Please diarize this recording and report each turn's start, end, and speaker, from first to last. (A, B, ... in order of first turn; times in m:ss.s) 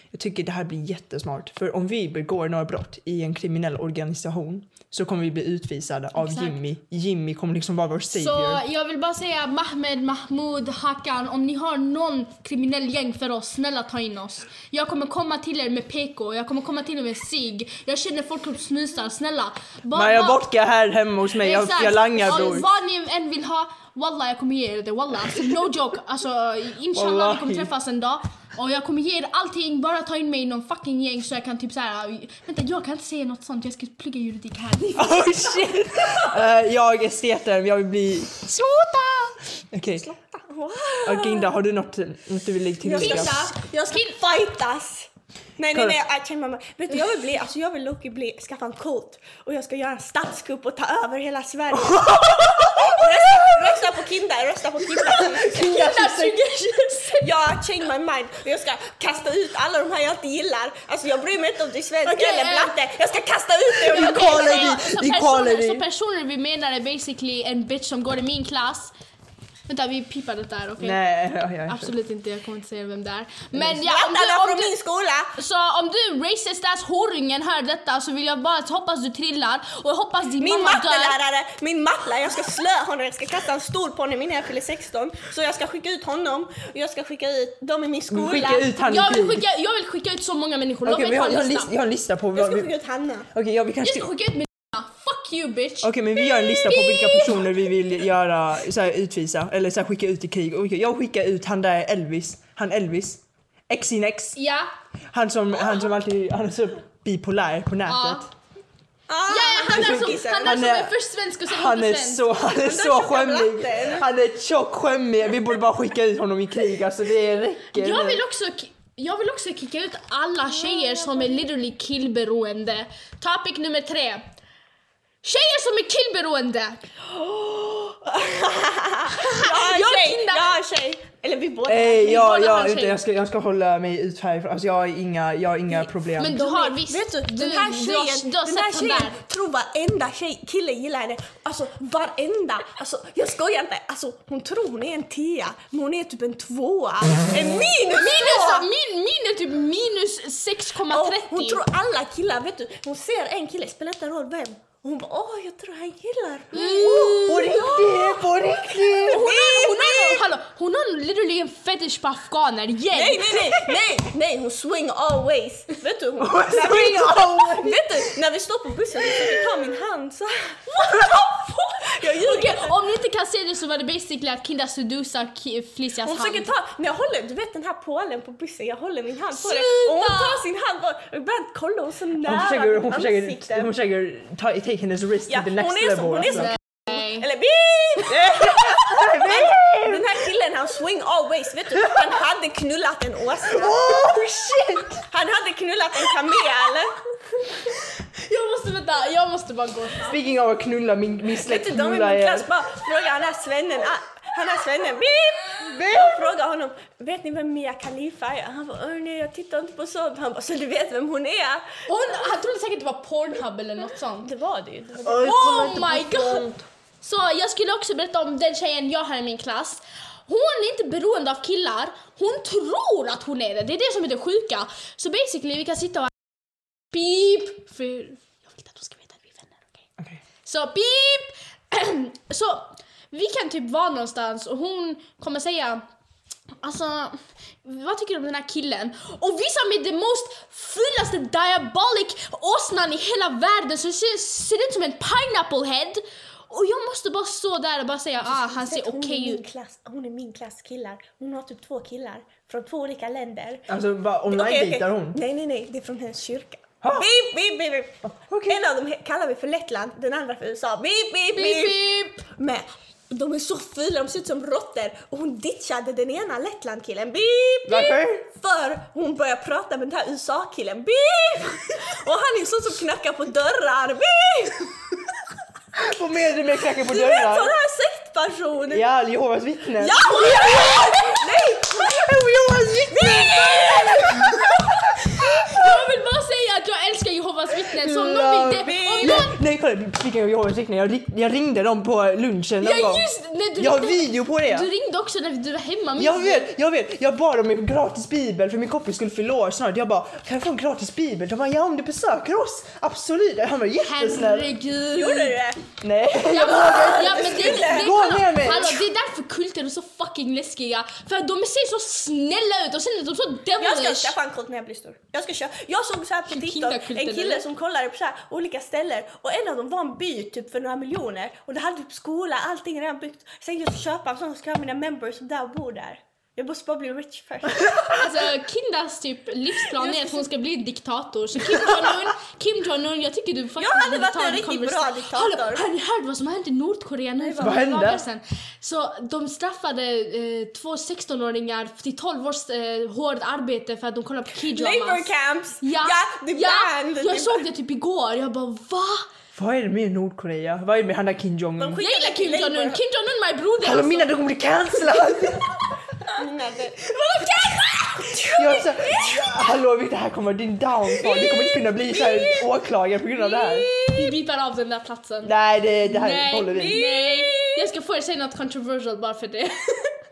0:00.1-0:08.6 A
0:06.2-0:06.6 B
0:08.1-0:20.4 B
0:19.9-0:22.6 A
0:21.4-0:36.2 B
0:26.9-0:27.7 A
0:34.9-0:38.5 A
0:38.5-0:39.3 B
0:39.7-0:40.0 A
0:40.0-0:41.6 C
0:41.0-0:43.4 A
0:42.8-0:55.7 C
0:42.9-0:44.2 B
0:51.7-0:53.7 A
0:55.0-0:56.7 A
0:55.4-0:57.3 B
0:57.2-1:04.8 C
1:02.0-1:02.8 B
1:03.8-1:05.8 A
1:03.9-1:08.9 B
1:09.7-1:11.0 B
1:10.8-1:11.9 A
1:11.6-1:14.7 B
1:13.8-1:15.4 C
1:15.4-1:21.2 B
1:20.4-1:28.7 C
1:28.1-1:29.4 A
1:28.8-1:31.7 B
1:30.8-1:32.7 A
1:32.3-1:33.3 C
1:33.3-1:34.1 A
1:33.8-1:37.6 B
1:35.8-1:44.4 A
1:44.4-1:44.7 B
1:45.1-1:48.3 A
1:47.9-1:48.2 B
1:49.1-1:50.6 C
1:49.3-1:52.2 B
1:49.7-1:58.2 A
1:52.5-1:54.0 C
1:57.7-2:04.3 B
2:00.5-2:01.5 C
2:05.2-2:06.8 B
2:07.1-2:12.2 C
2:09.2-2:10.6 B
2:11.7-2:16.4 A
2:12.0-2:13.0 B
2:16.2-2:19.2 B
2:16.3-2:28.7 C
2:27.9-2:31.6 B
2:30.9-2:38.3 C
2:36.5-2:37.8 B
2:36.6-2:39.2 A
2:39.0-2:40.2 C
2:39.0-2:43.6 B
2:42.9-2:50.6 C
2:46.2-2:48.0 A
2:50.7-2:56.5 B
2:51.8-2:52.8 C
2:56.0-3:03.7 C
2:59.4-3:00.4 B
3:02.2-3:06.6 A
3:05.3-3:14.2 C
3:06.4-3:07.2 B
3:08.1-3:10.2 A
3:13.5-3:15.0 A
3:15.0-3:17.0 C
3:18.2-3:20.2 B
3:20.0-3:22.5 A
3:21.4-3:31.8 C
3:25.6-3:26.2 A
3:31.9-3:34.3 B
3:34.2-3:35.3 C
3:35.0-3:36.6 A
3:35.2-3:36.5 B
3:37.0-3:46.1 B
3:46.9-3:49.8 B
3:50.4-3:55.8 B
3:56.6-4:09.4 B
4:08.2-4:13.7 C
4:13.7-4:15.2 A
4:14.3-4:34.7 C
4:16.8-4:17.1 A
4:18.2-4:18.6 A
4:21.3-4:22.2 B
4:27.6-4:28.3 A
4:35.7-4:37.6 A
4:36.8-4:38.9 C
4:38.7-4:41.1 A
4:39.8-4:42.2 C
4:39.9-4:40.9 B
4:41.7-4:44.6 A
4:42.9-4:44.4 C
4:45.3-4:49.4 B
4:45.4-4:45.7 A
4:47.7-4:53.0 A
4:48.6-4:49.2 C
4:52.6-4:56.5 B
4:53.6-4:54.7 A
4:56.0-5:04.5 A
5:03.8-5:05.4 B
5:04.9-5:05.6 C
5:05.8-5:08.8 A
5:06.3-5:14.2 B
5:06.3-5:08.0 C
5:13.6-5:28.0 C
5:16.3-5:17.4 B
5:27.9-5:45.1 B
5:29.7-5:30.3 C
5:33.6-5:35.6 C
5:37.2-5:37.6 C
5:37.4-5:38.0 A
5:44.5-5:47.4 C
5:45.6-5:49.1 B
5:49.3-5:51.8 A
5:51.6-5:52.8 C
5:51.8-5:54.1 B
5:53.6-5:55.5 A
5:56.1-5:56.8 C
5:56.8-5:58.5 B
5:58.1-5:59.2 C
5:58.3-6:03.8 A
6:01.0-6:02.4 B
6:03.2-6:09.9 B
6:05.2-6:06.8 A
6:06.5-6:07.7 C